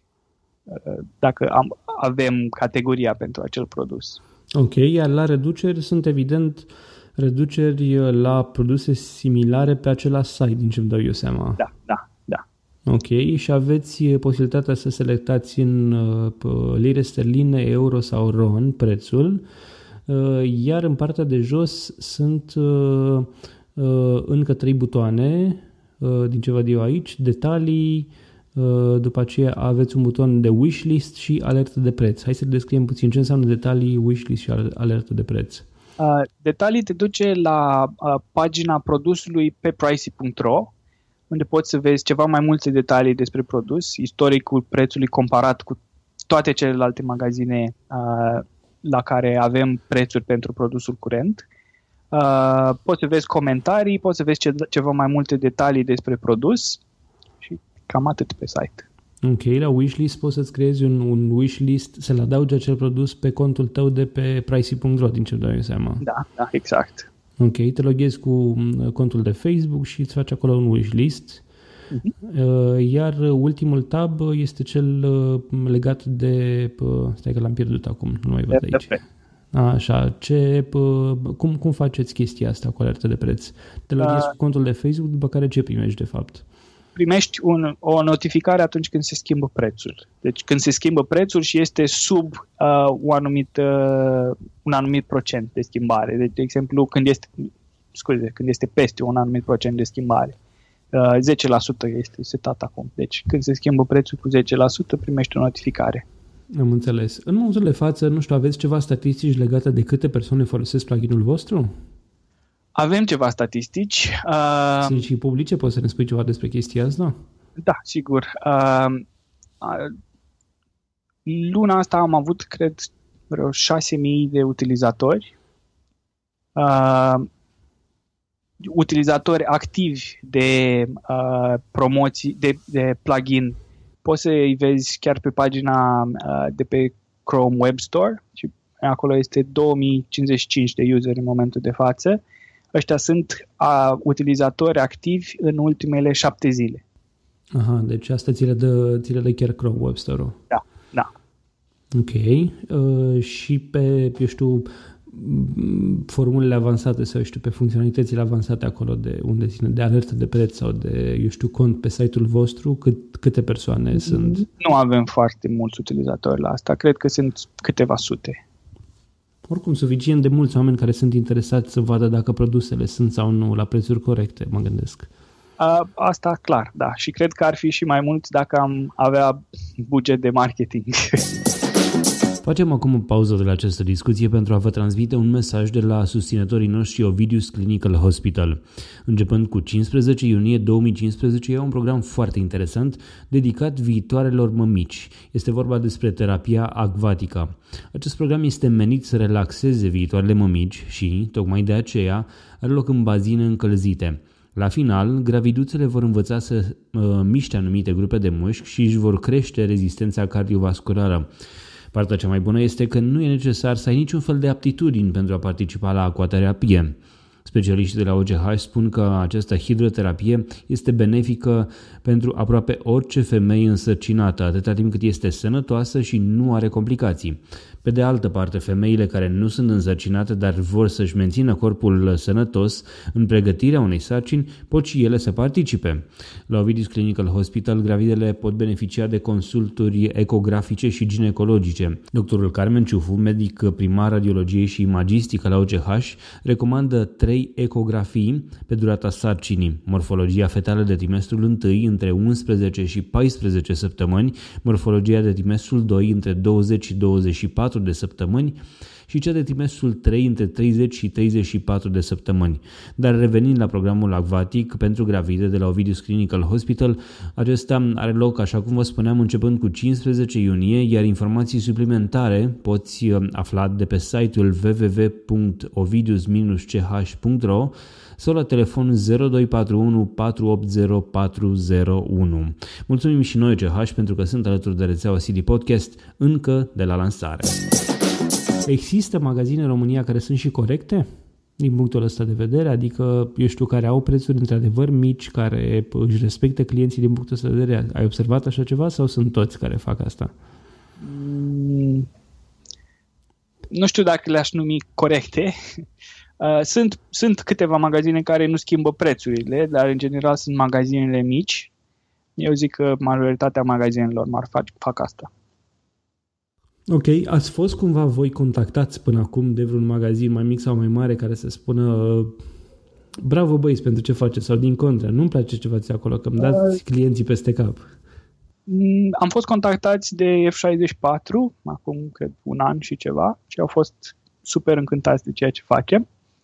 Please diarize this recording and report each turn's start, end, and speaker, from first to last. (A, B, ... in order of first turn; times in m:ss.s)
0:00.7-0:04.2 A
0:04.5-0:11.6 B
0:11.6-0:12.4 A
0:12.9-0:19.4 B
0:20.1-0:35.6 B
0:36.0-0:40.7 A
0:41.3-0:51.4 A
0:52.1-0:56.8 A
0:57.4-0:58.8 A
0:59.2-1:06.0 B
1:06.0-1:07.1 A
1:07.4-1:11.4 B
1:12.2-1:18.9 B
1:18.5-1:19.0 A
1:19.5-1:26.4 B
1:24.0-1:24.3 A
1:26.9-1:40.4 A
1:40.9-1:46.0 A
1:46.5-1:51.7 B
1:52.8-1:55.0 A
1:54.8-1:57.2 B
1:57.6-1:59.0 A
1:59.6-1:59.9 A
2:01.2-2:05.3 A
2:06.6-2:07.2 A
2:08.6-2:22.2 A
2:22.7-2:26.8 A
2:27.5-2:30.4 B
2:30.5-2:31.1 A
2:31.9-2:44.4 B
2:44.0-2:48.4 A
2:49.5-2:55.1 B
2:55.6-3:01.4 A
3:02.4-3:31.3 B
3:31.9-4:47.6 B
4:48.6-4:51.1 B
4:51.6-5:00.3 B
5:01.0-5:02.1 A
5:03.7-5:05.5 A
5:06.4-5:11.7 A
5:12.4-5:15.3 A
5:16.9-5:22.3 B
5:23.2-5:27.9 B
5:26.4-5:26.8 A
5:28.7-5:36.0 A